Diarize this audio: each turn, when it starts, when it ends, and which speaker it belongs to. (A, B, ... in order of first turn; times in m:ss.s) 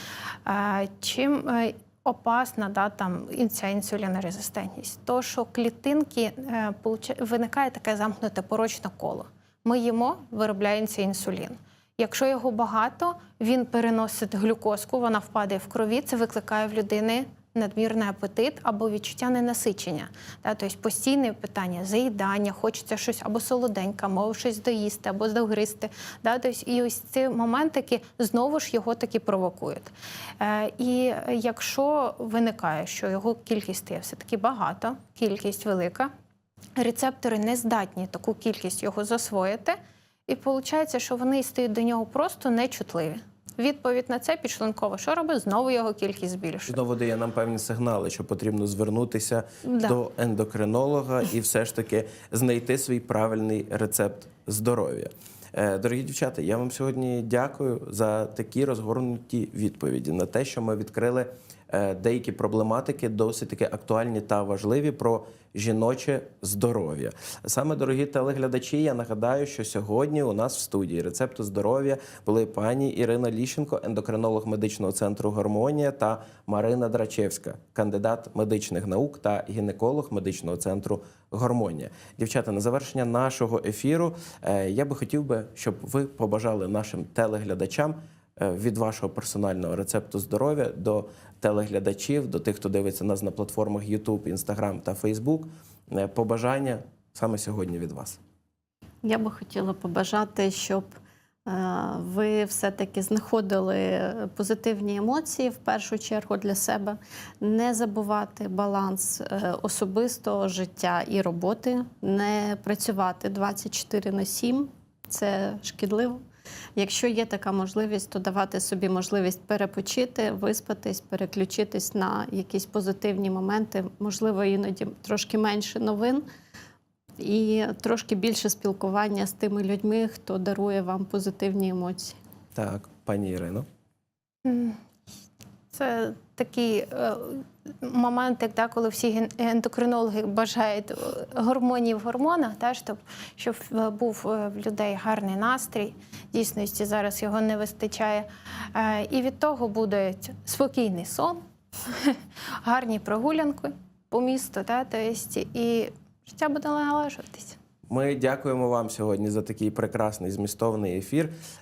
0:00.4-0:36.1 A
0:36.8-0:46.8 A
0:46.7-1:38.2 B
0:49.7-0:49.9 A
1:39.0-1:40.9 C
1:41.4-1:56.2 C
1:56.8-2:06.2 C
2:07.2-2:12.2 C
2:12.5-2:13.6 B
2:14.4-2:14.8 A
2:15.7-2:37.6 A
2:37.9-2:41.3 B